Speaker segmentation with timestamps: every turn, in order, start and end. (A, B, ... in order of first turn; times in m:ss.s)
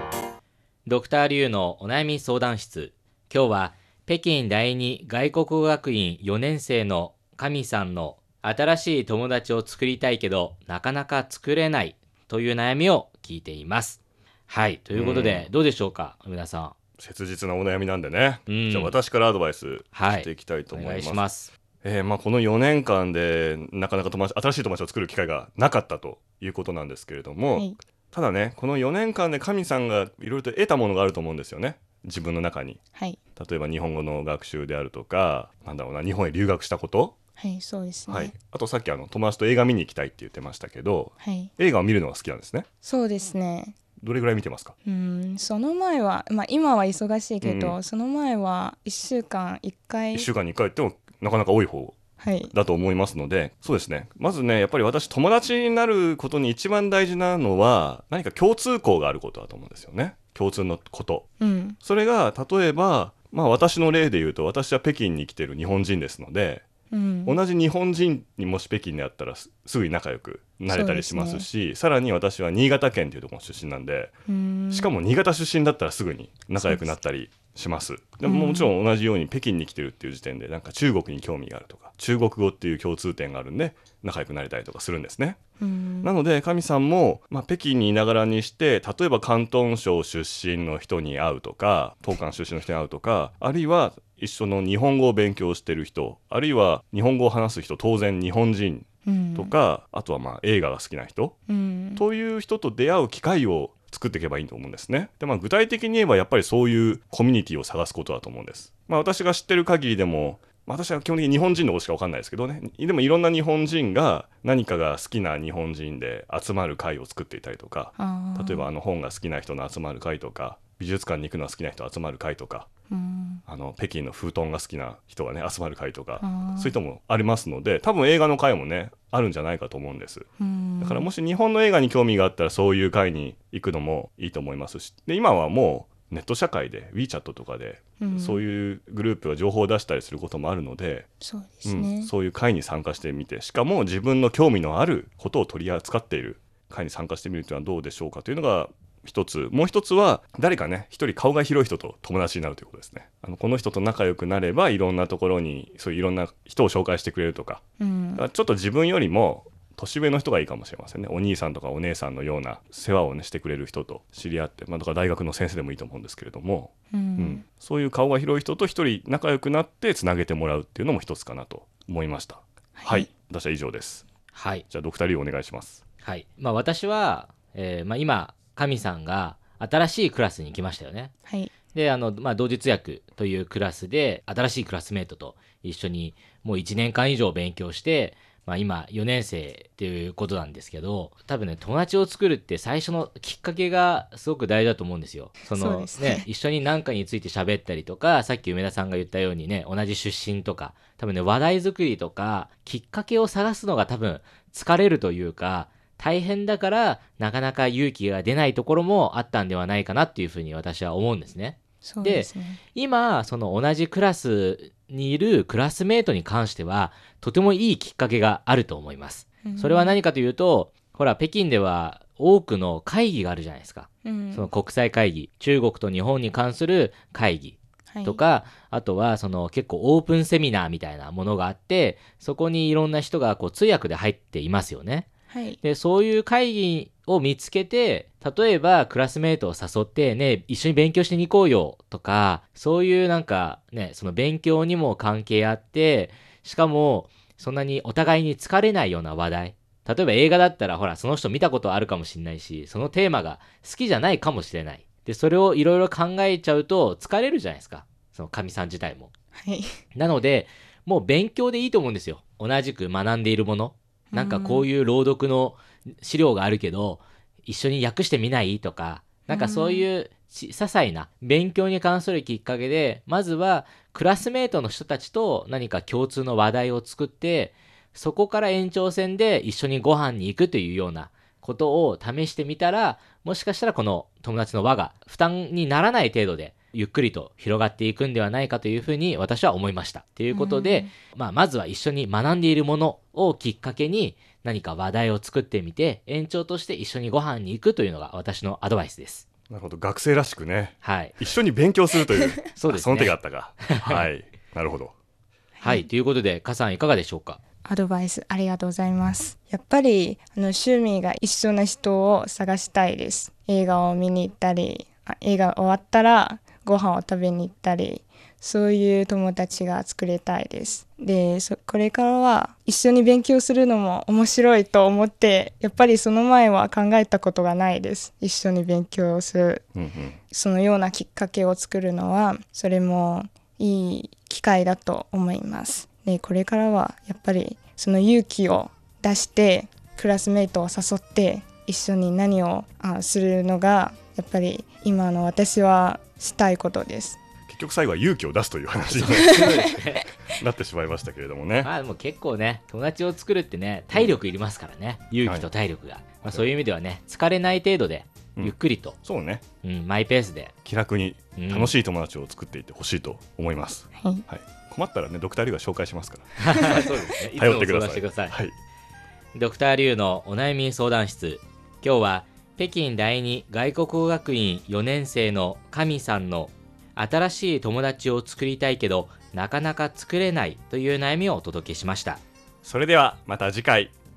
0:00.8-0:16.7 A
0:14.9-0:15.5 B
0:17.0-0:21.2 B
0:18.5-0:19.0 A
0:19.9-0:21.5 A
0:21.8-0:32.8 B
0:27.5-0:27.8 C
0:33.4-0:37.1 B
0:37.4-0:38.3 C
0:38.1-0:42.6 B
0:41.2-0:41.5 C
0:42.8-0:43.8 C
0:44.0-0:44.7 B
0:44.8-0:50.3 C
0:47.4-0:47.8 B
0:50.1-0:52.0 B
0:52.2-0:52.5 C
0:52.5-1:01.2 B
1:01.4-1:01.8 C
1:01.8-1:06.6 B
1:06.9-1:07.4 C
1:07.2-1:14.1 B
1:10.7-1:11.5 C
1:14.3-1:14.9 C
1:14.7-1:25.4 B
1:16.6-1:16.9 C
1:18.2-1:18.7 C
1:25.6-1:26.1 C
1:26.0-1:41.4 B
1:39.0-1:39.5 C
1:41.5-1:42.0 C
1:42.0-2:02.7 B
1:58.0-1:58.7 C
2:02.9-2:03.4 C
2:03.5-2:10.2 B
2:06.2-2:06.7 C
2:10.4-2:11.1 C
2:10.8-2:21.1 B
2:18.0-2:18.4 C
2:21.2-2:22.1 C
2:21.6-2:37.6 B
2:37.8-2:38.2 C
2:38.2-2:54.0 B
2:46.9-2:47.4 C
2:52.8-2:53.1 C
2:54.3-2:54.6 A
2:54.7-2:55.8 B
2:56.0-3:01.1 A
3:01.3-3:01.5 C
3:01.7-3:55.1 A
3:15.5-3:16.3 C
3:31.8-3:32.6 C
3:39.4-3:40.0 C
3:44.0-3:44.5 C
3:47.9-3:48.2 C
3:55.3-3:55.6 C
3:55.6-4:19.1 A
4:19.3-4:19.6 C
4:19.9-4:59.2 A
4:24.1-4:24.7 C
4:29.3-4:29.9 C
4:50.3-4:50.9 C
4:59.5-5:04.9 B
5:00.8-5:01.2 A
5:02.6-5:04.0 A
5:05.6-5:05.9 C
5:05.6-5:07.4 A
5:07.6-5:29.6 C
5:29.7-5:30.2 B
5:30.3-5:47.2 C
5:47.5-5:49.7 B
5:49.0-5:49.6 C
5:49.2-5:50.1 A
5:50.3-5:51.7 B
5:51.6-5:59.0 A
5:56.2-5:56.5 B
5:58.4-5:59.4 B
5:59.6-6:00.5 A
6:00.6-6:08.5 B
6:01.4-6:01.7 A
6:04.0-6:04.2 C
6:06.4-6:08.4 A
6:09.3-6:22.2 A
6:22.6-6:23.9 B